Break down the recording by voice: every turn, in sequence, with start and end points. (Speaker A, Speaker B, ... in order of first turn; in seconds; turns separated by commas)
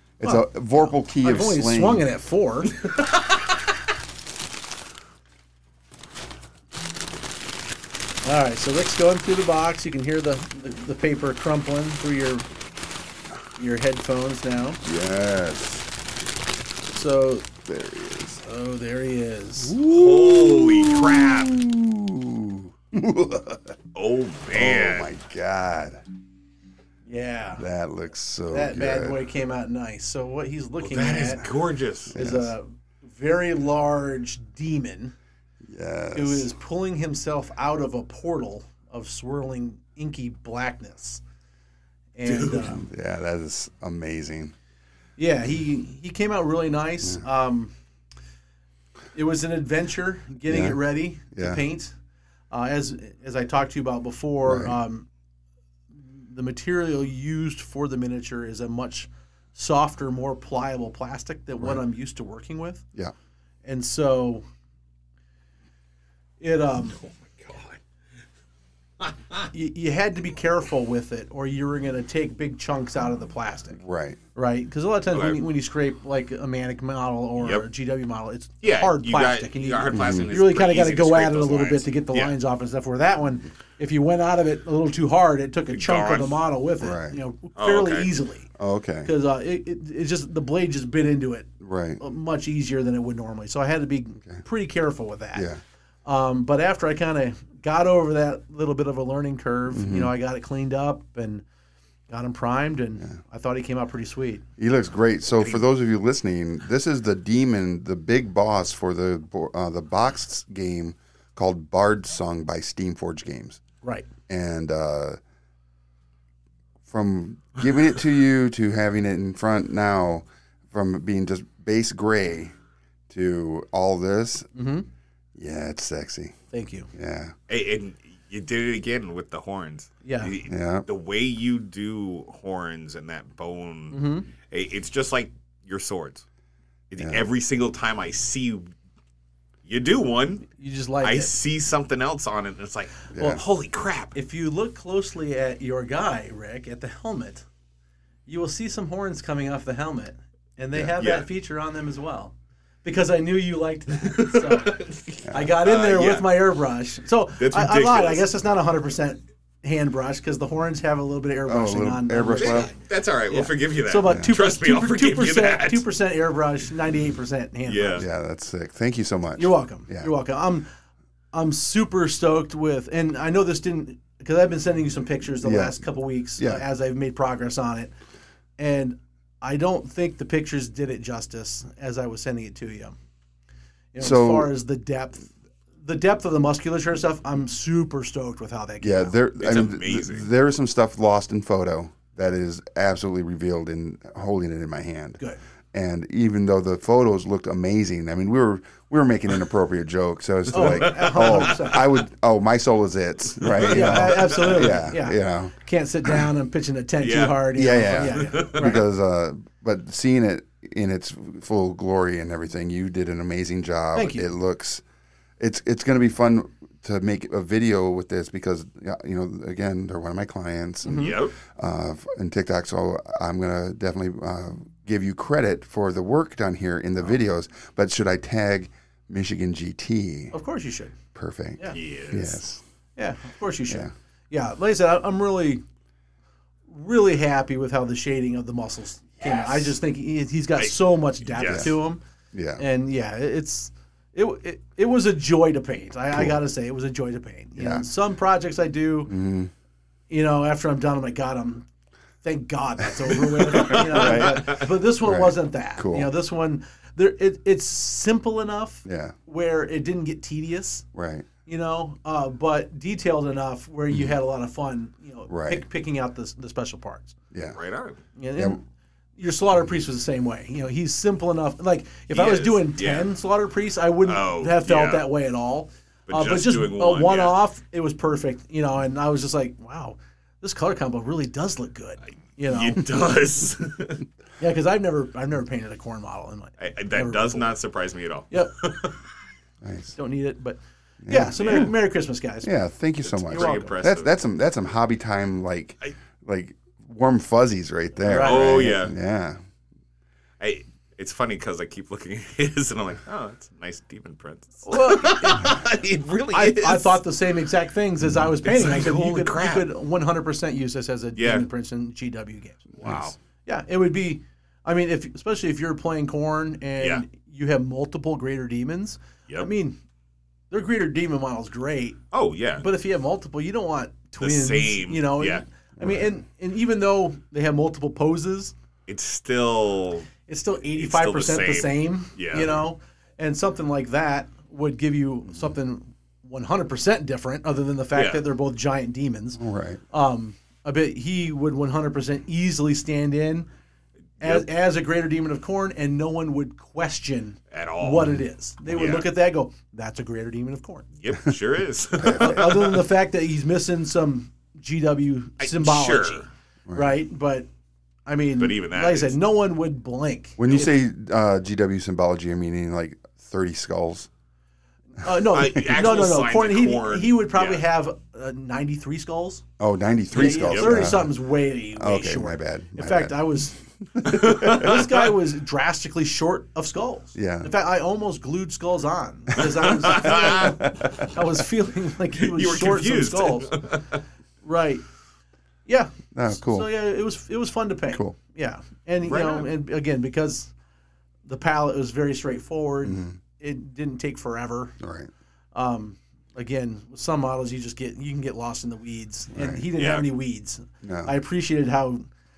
Speaker A: 0.2-2.0, Speaker B: 0.2-2.7, Speaker C: 2.8-3.5, Speaker B: 8.2-12.5, Speaker B: 13.6-14.8, Speaker A: 14.8-15.9, Speaker B: 16.9-17.5, Speaker A: 17.6-18.4, Speaker B: 18.4-19.7, Speaker A: 19.6-23.8, Speaker C: 19.9-21.6, Speaker C: 23.9-25.1, Speaker A: 24.5-26.0, Speaker B: 27.1-27.6, Speaker A: 27.6-29.2, Speaker B: 28.5-31.5, Speaker C: 30.8-32.1, Speaker A: 32.1-32.5, Speaker B: 32.1-35.1, Speaker A: 35.6-36.5, Speaker B: 36.1-41.2, Speaker B: 42.1-42.8, Speaker A: 42.4-44.5, Speaker B: 45.2-47.7, Speaker B: 49.1-51.9, Speaker A: 50.5-50.8, Speaker A: 51.3-51.6, Speaker B: 52.5-55.1, Speaker A: 54.5-54.8, Speaker B: 56.0-62.8, Speaker B: 63.6-64.4, Speaker B: 66.4-67.0, Speaker C: 67.0-67.8, Speaker C: 69.0-69.5, Speaker B: 69.5-73.8, Speaker A: 73.8-74.2, Speaker B: 74.3-88.5, Speaker C: 75.1-75.4, Speaker C: 77.4-77.7, Speaker C: 78.6-82.3, Speaker A: 79.9-80.4, Speaker C: 85.7-86.4, Speaker A: 86.8-87.2, Speaker C: 87.6-88.1, Speaker A: 88.6-89.1, Speaker B: 89.0-95.5, Speaker A: 91.6-92.0, Speaker A: 95.3-95.6, Speaker B: 96.0-101.4, Speaker A: 99.7-100.1, Speaker B: 102.1-104.4, Speaker A: 104.6-113.6, Speaker B: 113.8-114.1, Speaker A: 114.3-115.2, Speaker A: 116.9-122.5, Speaker A: 123.1-124.5, Speaker B: 124.5-124.8, Speaker A: 125.3-126.4, Speaker B: 126.5-126.9, Speaker A: 126.9-127.3, Speaker C: 127.5-136.2, Speaker B: 130.0-130.3, Speaker A: 130.5-130.8, Speaker B: 133.9-134.3, Speaker C: 136.9-138.7, Speaker A: 137.0-137.2, Speaker C: 139.7-140.5, Speaker B: 140.5-141.3, Speaker C: 141.0-144.1, Speaker A: 143.1-143.4, Speaker B: 144.1-147.4, Speaker B: 148.3-162.8, Speaker C: 151.0-151.3, Speaker C: 154.0-156.4, Speaker A: 155.2-155.5, Speaker C: 157.4-158.2, Speaker A: 161.5-162.7, Speaker C: 162.4-165.8, Speaker B: 163.3-168.0, Speaker A: 164.1-164.3, Speaker C: 167.7-168.1, Speaker A: 168.0-170.1, Speaker B: 169.4-170.7, Speaker B: 171.3-177.9, Speaker A: 175.4-175.8, Speaker A: 176.4-176.6, Speaker B: 178.6-182.9, Speaker B: 183.9-185.3, Speaker A: 184.0-184.5, Speaker B: 185.8-189.2, Speaker A: 188.8-195.2, Speaker C: 189.4-190.3, Speaker A: 195.7-205.5, Speaker B: 200.5-201.9, Speaker C: 200.5-201.6, Speaker C: 203.4-204.8, Speaker B: 203.6-208.8, Speaker C: 207.0-208.7, Speaker A: 207.5-214.8, Speaker B: 213.9-214.3, Speaker A: 215.4-230.3, Speaker B: 220.8-221.2, Speaker C: 220.9-221.3, Speaker B: 230.3-230.9, Speaker A: 231.1-232.6, Speaker C: 231.7-232.4, Speaker B: 233.0-235.6, Speaker B: 236.7-242.0, Speaker C: 240.6-241.7, Speaker A: 241.4-241.7, Speaker A: 242.3-242.6, Speaker B: 242.6-249.2, Speaker A: 247.6-247.8, Speaker A: 249.1-249.5, Speaker B: 250.1-251.7, Speaker B: 252.2-260.8, Speaker C: 253.4-254.6, Speaker A: 253.9-256.1, Speaker A: 258.8-259.1, Speaker A: 260.9-261.3, Speaker B: 261.4-267.1, Speaker A: 265.3-265.6, Speaker A: 267.3-267.6, Speaker C: 267.5-268.0, Speaker B: 268.1-268.6, Speaker B: 269.2-283.0, Speaker C: 272.1-273.1, Speaker C: 274.0-275.1, Speaker C: 276.1-277.4, Speaker C: 282.5-284.0, Speaker B: 284.4-287.5, Speaker C: 286.6-289.0, Speaker B: 288.3-288.7, Speaker A: 289.6-289.9, Speaker B: 290.0-292.5, Speaker A: 291.0-291.6, Speaker C: 291.4-291.7, Speaker A: 292.4-299.4, Speaker C: 293.0-294.1, Speaker B: 293.3-293.8, Speaker B: 298.0-298.6, Speaker C: 298.1-298.9, Speaker C: 300.4-307.0, Speaker B: 304.6-305.6, Speaker B: 306.3-312.7, Speaker C: 308.4-309.7, Speaker C: 311.1-311.5, Speaker C: 312.8-313.1, Speaker B: 313.4-319.8, Speaker B: 320.5-322.0, Speaker C: 322.1-322.7, Speaker B: 322.6-328.5, Speaker C: 324.2-325.4, Speaker A: 325.8-326.1, Speaker C: 328.9-330.1, Speaker B: 330.3-343.5, Speaker C: 330.7-332.6, Speaker C: 337.9-338.2, Speaker A: 339.4-339.8, Speaker B: 344.2-350.9, Speaker C: 347.5-349.1, Speaker C: 351.0-352.9, Speaker A: 352.0-352.4, Speaker B: 352.1-357.5, Speaker C: 355.4-356.3, Speaker A: 356.7-357.0, Speaker B: 358.1-360.7, Speaker C: 358.4-359.1, Speaker A: 360.4-364.1, Speaker B: 365.0-369.4, Speaker C: 365.2-367.6, Speaker A: 369.6-371.1, Speaker B: 370.1-383.6, Speaker C: 370.4-370.9, Speaker A: 371.8-373.2, Speaker A: 373.8-374.8, Speaker C: 374.1-375.1, Speaker A: 377.1-377.5, Speaker C: 379.4-380.7, Speaker A: 380.2-381.1, Speaker C: 382.1-384.0, Speaker B: 384.4-384.8, Speaker B: 385.6-390.5, Speaker A: 386.1-386.7, Speaker C: 389.0-389.5, Speaker B: 391.2-394.8, Speaker A: 392.8-393.2, Speaker A: 394.8-395.1, Speaker B: 395.5-402.0, Speaker A: 399.3-399.6, Speaker C: 399.8-400.1, Speaker A: 400.8-401.1